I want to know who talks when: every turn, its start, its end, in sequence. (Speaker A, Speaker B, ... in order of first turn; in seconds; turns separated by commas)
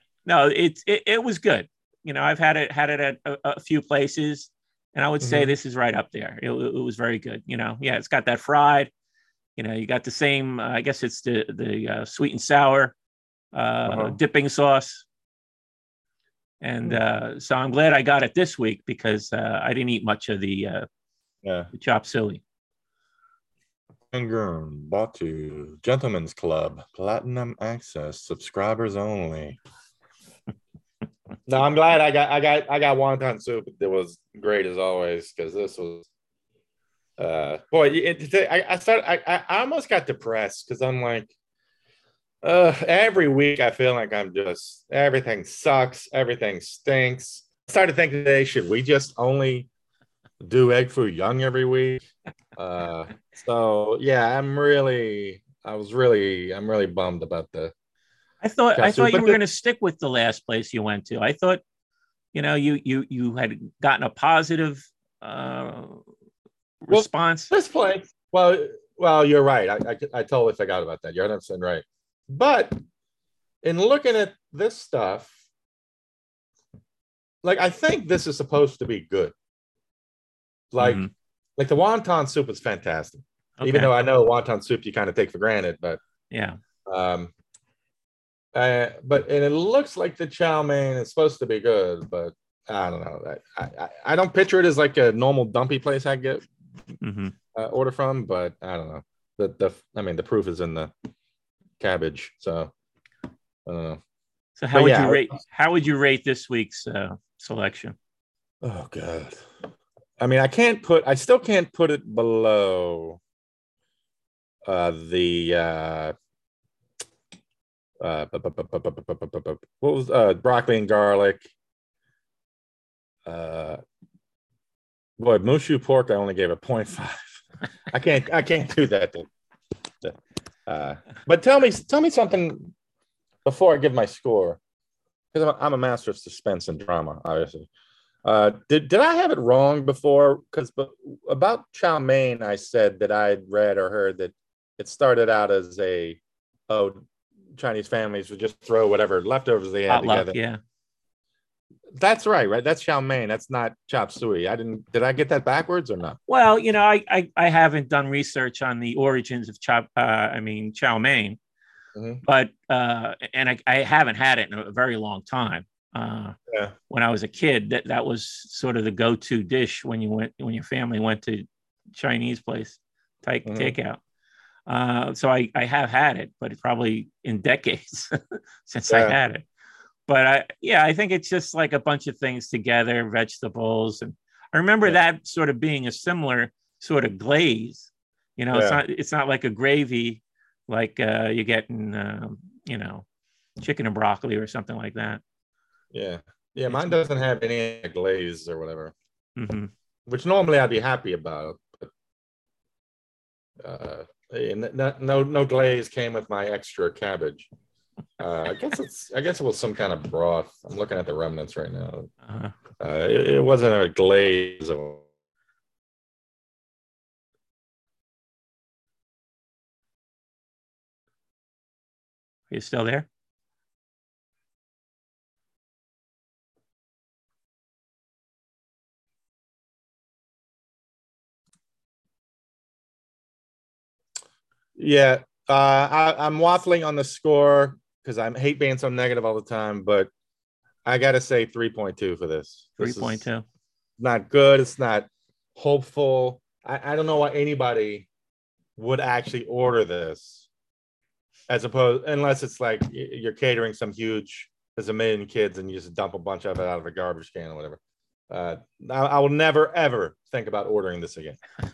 Speaker A: 0.2-8.9, Speaker B: 5.2-5.5, Speaker A: 9.6-12.9, Speaker A: 13.5-15.1, Speaker B: 13.9-14.2, Speaker A: 16.6-20.9, Speaker B: 21.4-21.7, Speaker A: 21.7-22.4, Speaker B: 24.1-29.6, Speaker B: 31.5-36.1, Speaker B: 37.2-41.3, Speaker B: 42.4-49.7, Speaker B: 50.4-57.7, Speaker A: 58.4-61.6, Speaker B: 58.8-59.4, Speaker A: 62.3-66.0, Speaker A: 66.8-67.5, Speaker B: 66.9-72.8, Speaker B: 73.6-75.3, Speaker B: 77.4-79.3, Speaker B: 80.7-81.0, Speaker A: 80.8-81.1, Speaker B: 81.6-86.0, Speaker A: 83.6-83.9, Speaker A: 86.3-86.6, Speaker B: 86.9-87.3, Speaker B: 88.5-96.5, Speaker A: 97.0-97.3, Speaker B: 97.5-100.9, Speaker B: 101.8-102.7, Speaker B: 103.7-104.0, Speaker A: 104.6-108.0, Speaker B: 104.7-105.3, Speaker B: 108.6-109.4, Speaker B: 110.2-113.2, Speaker B: 114.7-116.2, Speaker B: 118.0-121.5, Speaker B: 123.2-123.8, Speaker B: 125.2-129.3, Speaker B: 130.0-132.7, Speaker B: 133.4-134.6, Speaker B: 135.3-137.7, Speaker B: 138.2-147.0, Speaker B: 147.6-150.4, Speaker A: 149.9-150.6, Speaker B: 151.9-156.2, Speaker A: 156.3-161.4, Speaker B: 161.9-162.2, Speaker A: 162.2-166.4, Speaker A: 166.9-174.0, Speaker B: 173.5-173.8, Speaker A: 174.7-179.5, Speaker B: 178.9-179.2, Speaker A: 180.1-193.1, Speaker B: 188.5-188.8, Speaker A: 193.6-195.2, Speaker B: 195.9-198.9, Speaker A: 196.7-196.9, Speaker A: 199.4-199.7, Speaker B: 200.1-201.9, Speaker B: 203.6-207.5, Speaker B: 208.2-212.1, Speaker A: 212.3-212.5, Speaker B: 212.8-215.0, Speaker A: 222.5-223.1, Speaker B: 234.8-240.1, Speaker B: 240.8-243.2, Speaker A: 242.8-243.4, Speaker B: 244.0-248.1, Speaker B: 248.8-250.5, Speaker B: 251.5-261.4